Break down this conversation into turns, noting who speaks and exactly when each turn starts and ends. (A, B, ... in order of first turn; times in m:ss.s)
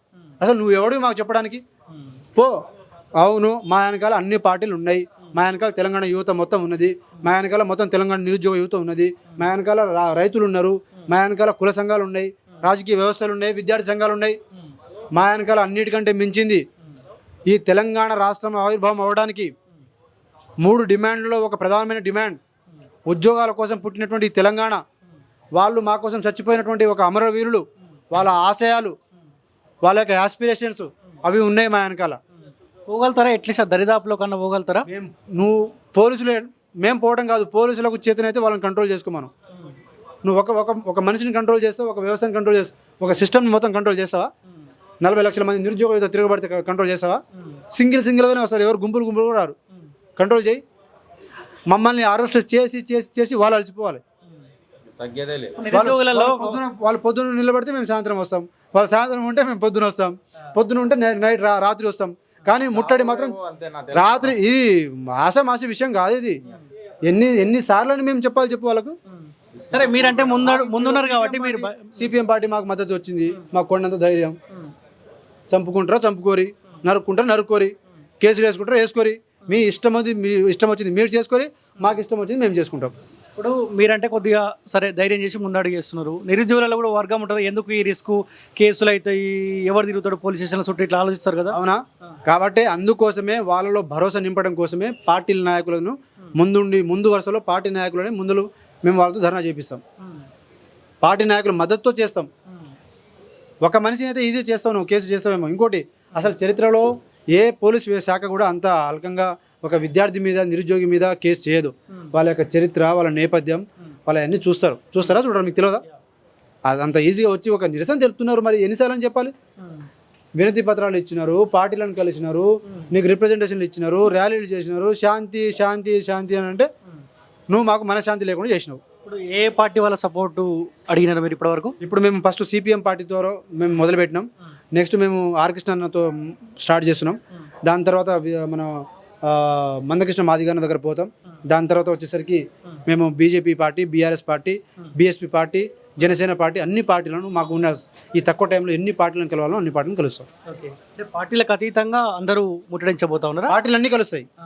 0:00.4-0:01.6 A
0:03.2-0:14.4 A
0:15.1-0:16.6 A
0:17.5-0:19.5 A
0:20.6-0:22.4 A
0:23.1-0:24.8 A
0:25.6-0:28.9 A
0:29.8-0:32.2 A
0:32.9-0:34.8 B
0:34.9-0:39.3 A
0:40.2-0:44.3 A
0:45.0-0:47.2 A
0:47.7-0:49.5 A
0:50.2-0:50.6 A
0:51.7-0:54.0 A
0:55.0-0:55.6 C
0:55.6-0:56.6 B
0:55.7-1:03.4 A
1:02.7-1:04.3 C
1:03.9-1:06.4 A
1:07.1-1:09.0 A
1:09.6-1:09.9 C
1:09.7-1:12.1 B
1:09.9-1:14.4 A
1:15.5-1:22.9 A
1:23.4-1:31.6 B
1:31.5-1:39.8 A
1:41.0-1:42.3 A
1:43.6-1:55.8 A
1:56.7-1:59.3 A
2:00.4-2:06.7 A
2:07.5-2:08.8 A
2:09.0-2:11.8 B
2:11.8-2:18.7 A
2:19.2-2:30.3 A
2:30.5-2:33.5 B
2:33.5-2:34.2 A